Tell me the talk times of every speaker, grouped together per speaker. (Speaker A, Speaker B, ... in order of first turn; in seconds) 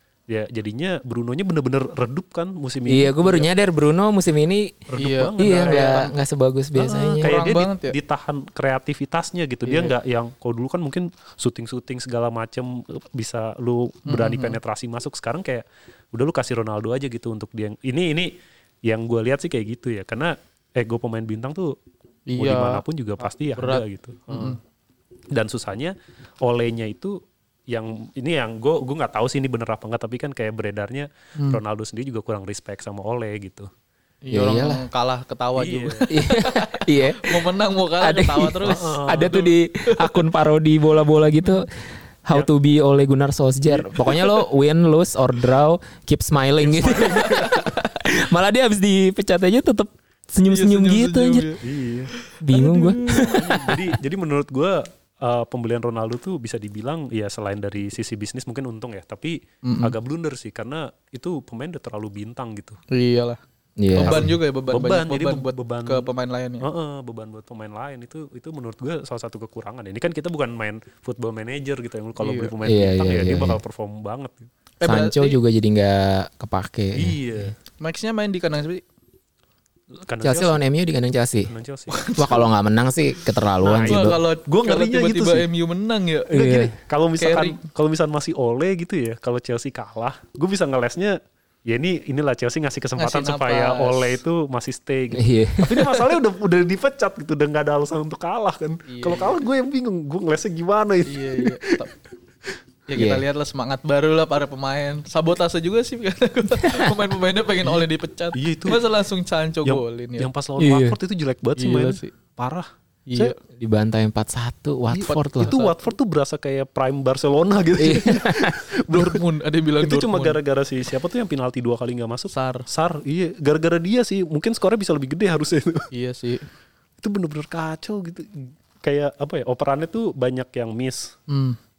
Speaker A: 0.3-3.5, 4.9-6.1, 7.2-18.3, 18.9-21.8, 22.4-24.6, 25.3-27.2, 27.7-33.7, 35.5-36.1, 38.6-39.5, 43.7-44.0, 46.6-47.6, 51.6-62.8, 64.0-66.1, 66.6-74.5, 76.9-77.5, 80.0-80.6, 81.5-82.0, 83.6-85.5, 86.3-101.8, 107.6-108.8, 109.6-113.3, 114.9-119.2, 119.8-125.9, 127.0-131.2
Speaker B: 2.9-4.8, 5.4-7.3, 34.3-34.8, 36.1-37.5, 38.0-41.7, 42.2-51.5, 52.4-53.8, 63.8-64.3, 72.6-73.6, 74.8-77.2, 80.2-81.5, 82.2-84.2, 86.3-86.7, 95.1-95.8, 103.0-103.2, 106.6-106.9, 110.6-111.0, 113.5-115.5, 117.8-118.6
Speaker C: 5.0-6.0, 6.8-7.9, 9.7-9.9, 14.1-14.6, 22.3-22.8, 23.5-24.6, 34.2-38.9, 50.5-51.6, 52.2-53.3, 59.6-59.9, 62.9-63.4, 64.0-66.7, 72.2-72.5, 74.8-75.4, 77.8-78.8, 81.9-82.4, 83.8-86.6, 87.2-87.6, 93.0-94.2, 98.9-99.4, 101.0-101.9, 102.9-110.3, 111.6-112.1, 113.1-113.3, 115.4-115.9, 118.9-120.4, 122.3-122.7, 125.9-126.5, 131.3-131.6